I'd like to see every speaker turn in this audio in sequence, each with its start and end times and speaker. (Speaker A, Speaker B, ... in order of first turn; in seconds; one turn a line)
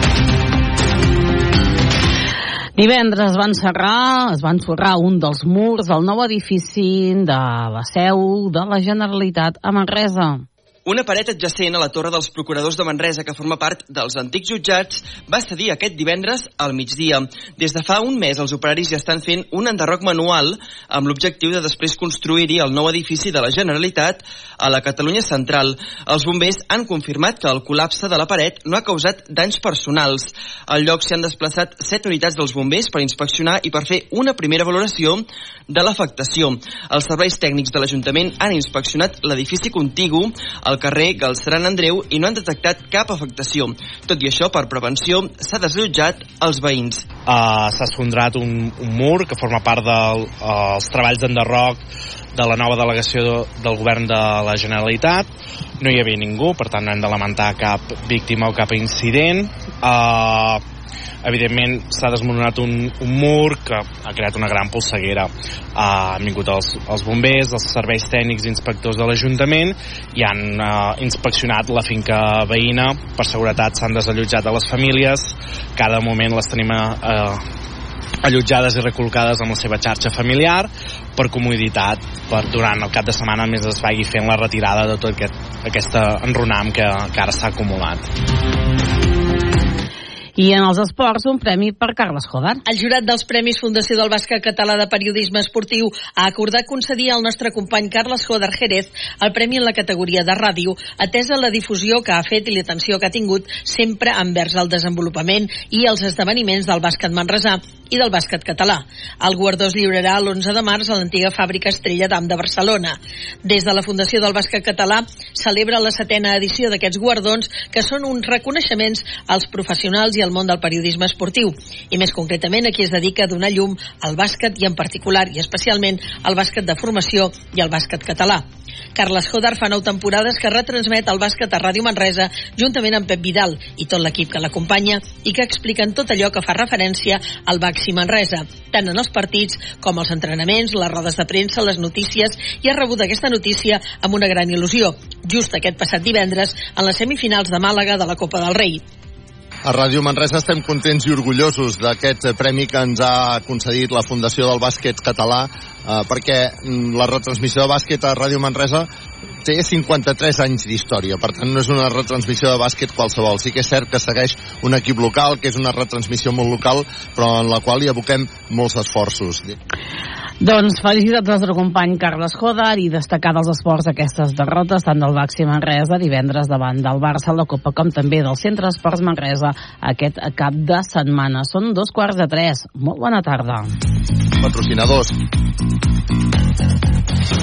Speaker A: 2.8-10.4
Speaker B: 10.9-47.1
Speaker C: 47.3-51.8
Speaker C: 52.4-55.3
Speaker C: 55.8-60.6
Speaker C: 61.2-77.4
Speaker C: 78.2-88.1
Speaker A: 90.4-92.6
Speaker D: 92.7-148.8
Speaker E: 149.7-158.9
Speaker E: 159.5-169.5
Speaker A: 170.4-183.7
Speaker E: 184.4-185.1